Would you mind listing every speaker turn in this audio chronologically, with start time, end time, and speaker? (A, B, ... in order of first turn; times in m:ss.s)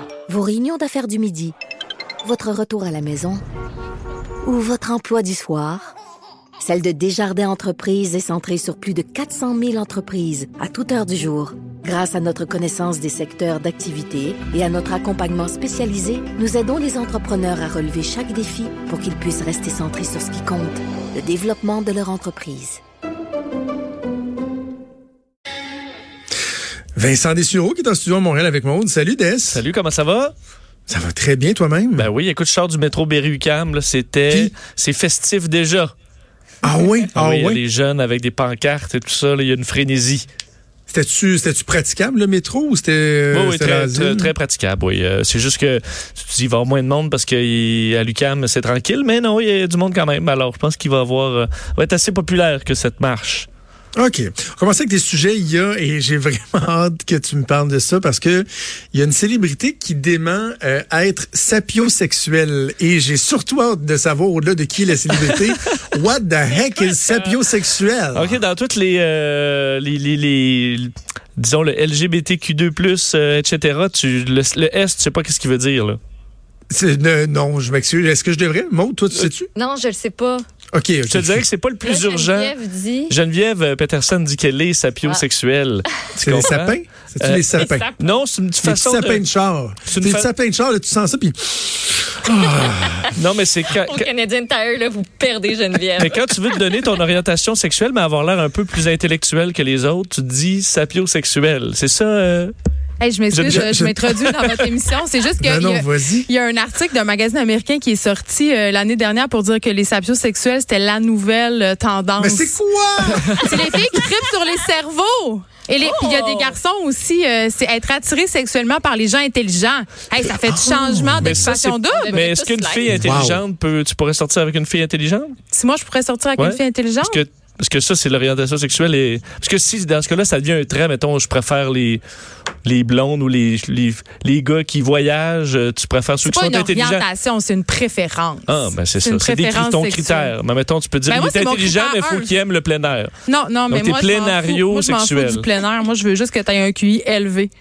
0:00.3-0:01.5 A
0:02.2-0:03.4 A
0:04.4-0:05.9 A
0:06.6-0:22.8 A
0:27.0-0:29.6 B
0:29.5-0:30.3 C
0:30.9-0:32.1 B
0:32.0-0:35.9 C
0:36.6-0:37.6 B
0:37.1-0:40.3 C
0:40.9-0:44.3 B
0:43.3-0:53.5 C
0:54.0-1:08.4 B
1:08.1-1:16.0 C
1:16.7-1:19.5 B
1:19.5-1:20.4 D
1:20.7-1:21.4 B
1:21.0-1:22.5 C
1:21.8-1:23.1 D
1:23.1-1:29.2 C
1:26.2-1:27.9 B
1:27.5-1:28.2 D
1:28.6-1:33.1 B
1:29.9-1:30.3 C
1:33.1-1:34.1 C
1:33.8-1:36.7 D
1:36.0-1:42.5 C
1:43.0-1:52.5 E
1:43.3-1:44.7 C
1:43.4-1:44.1 B
1:45.4-1:46.3 B
1:52.2-1:53.7 B
1:53.3-2:02.3 E
1:55.8-1:56.6 D
2:00.5-2:01.5 B
2:01.2-2:05.3 C
2:01.9-2:03.0 D
2:02.9-2:03.4 B
2:05.5-2:07.2 E
2:06.4-2:12.0 C
2:12.6-2:17.0 C
2:16.2-2:20.3 E
2:18.5-2:23.1 C
2:21.0-2:22.3 E
2:23.2-2:27.5 E
2:23.7-2:25.4 C